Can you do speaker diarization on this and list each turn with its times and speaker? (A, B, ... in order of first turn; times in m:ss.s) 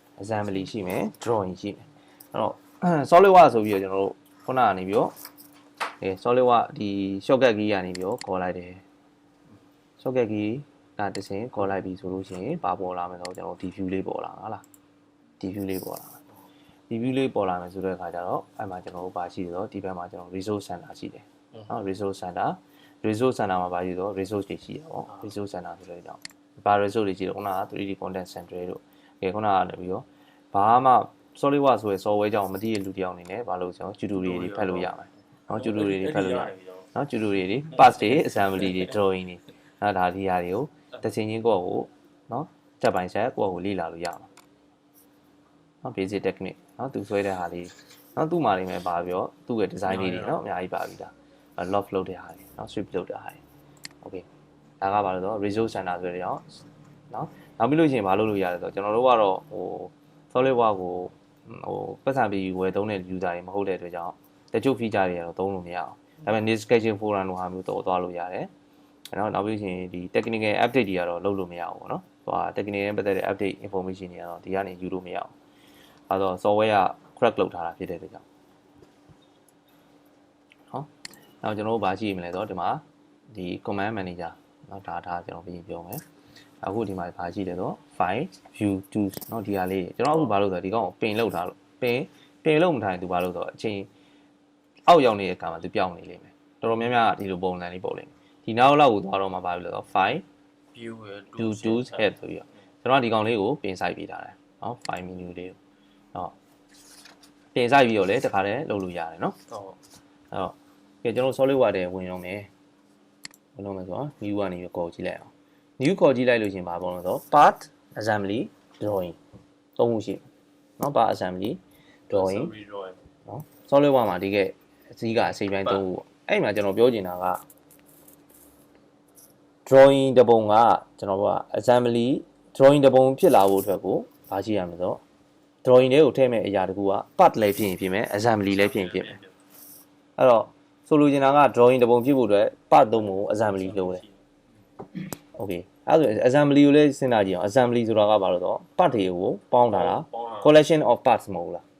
0:00.2-0:05.1 A
0:06.0-0:08.8 A
0:10.0-0:14.6 A
0:15.4-0:16.2 A
0:16.9-0:44.3 A
0:34.2-0:34.9 B
0:35.5-0:36.9 B
0:45.8-0:53.4 A
0:49.8-0:50.4 B
0:54.8-1:08.5 A
1:09.1-1:15.3 A
1:16.1-1:18.2 A
1:21.4-1:26.0 A
1:26.6-1:33.9 A
1:34.9-1:40.2 A
1:40.7-1:42.1 B
1:41.4-1:45.6 A
1:47.5-1:49.4 A
1:49.5-1:49.8 B
1:50.3-1:52.5 A
1:53.6-1:59.2 A
1:59.8-2:00.2 A
2:00.8-2:02.5 A
2:02.1-2:03.0 B
2:03.2-2:07.4 A
2:09.7-2:15.0 A
2:15.6-2:19.2 A
2:18.5-2:19.3 B
2:20.2-2:24.0 A
2:23.3-2:24.2 B
2:25.2-2:31.6 A
2:29.7-2:30.5 B